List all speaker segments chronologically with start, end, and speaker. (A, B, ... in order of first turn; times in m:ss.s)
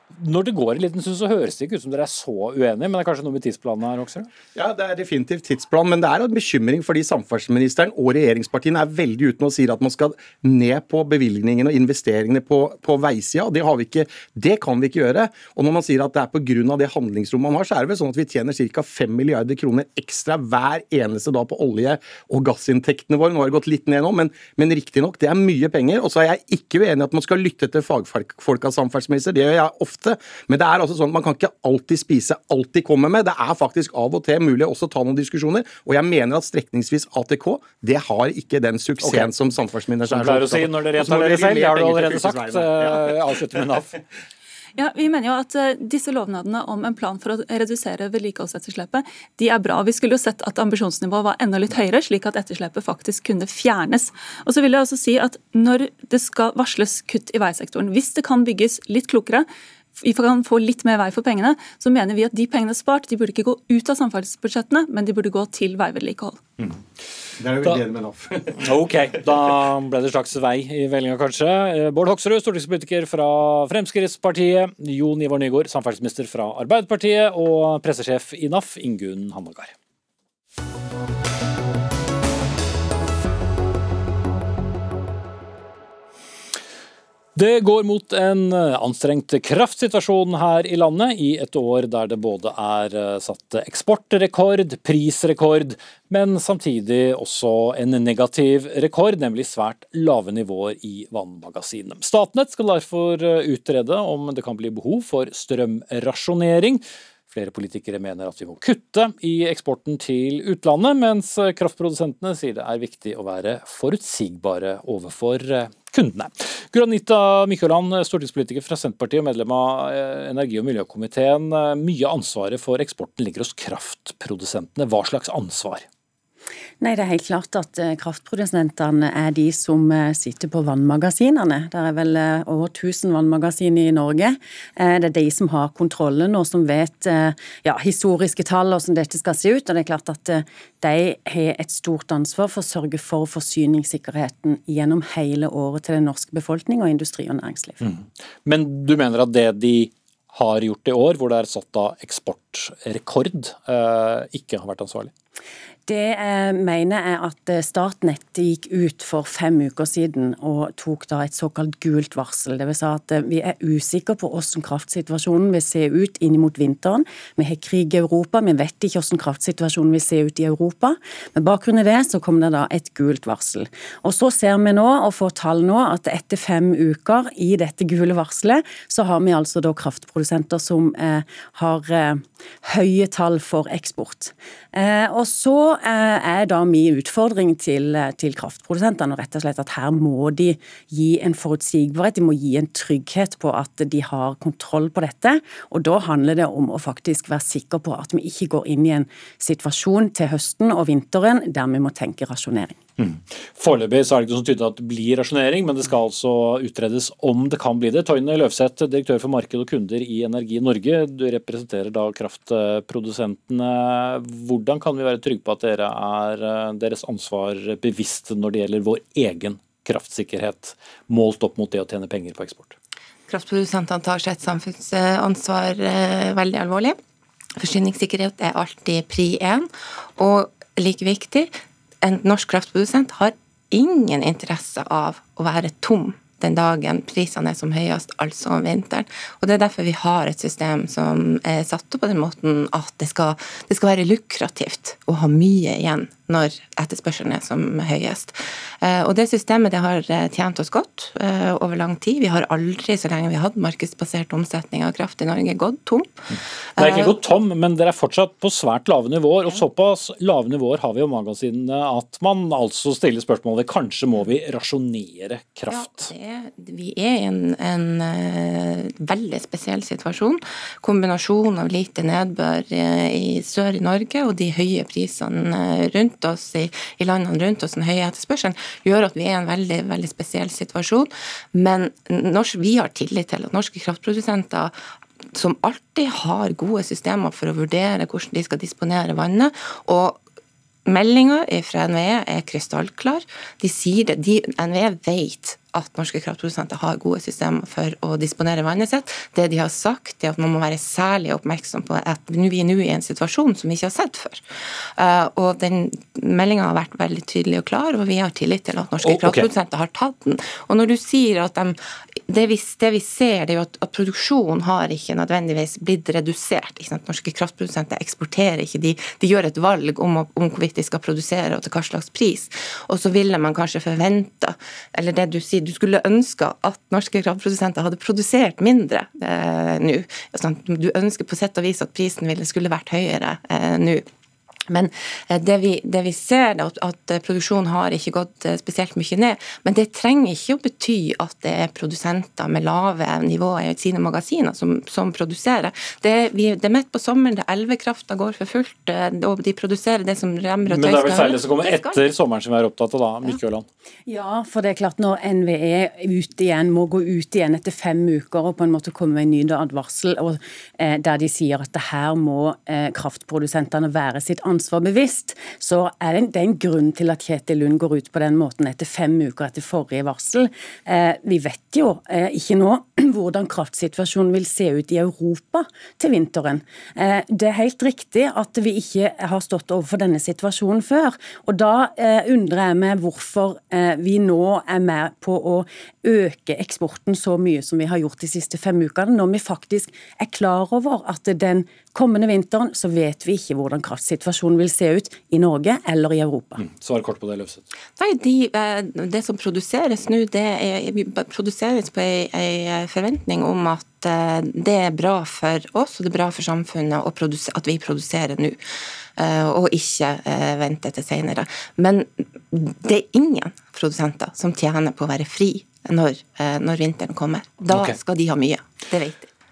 0:00.1-0:04.3 A
0:04.5-0:43.8 B
0:39.0-0:39.3 A
0:40.0-0:44.0 A
0:44.8-1:06.4 C
1:07.4-1:08.8 B
1:08.5-1:19.7 A
1:27.3-2:05.8 A
2:06.8-2:27.8 D
2:27.8-2:35.1 A
2:35.9-3:22.8 D
3:23.0-3:42.8 A
3:43.3-3:47.0 E
3:47.6-4:17.2 E
4:16.3-4:26.1 A
4:25.7-4:44.8 E
4:45.3-4:50.2 E
4:50.8-5:11.8 E
5:09.0-5:09.5 A
5:12.3-5:34.0 E
5:34.7-5:52.0 E
5:50.7-5:53.6 A
5:54.0-6:36.6 D
6:36.6-6:37.6 A
6:38.0-6:48.6 E
6:49.2-6:59.3 E
6:57.7-6:58.0 A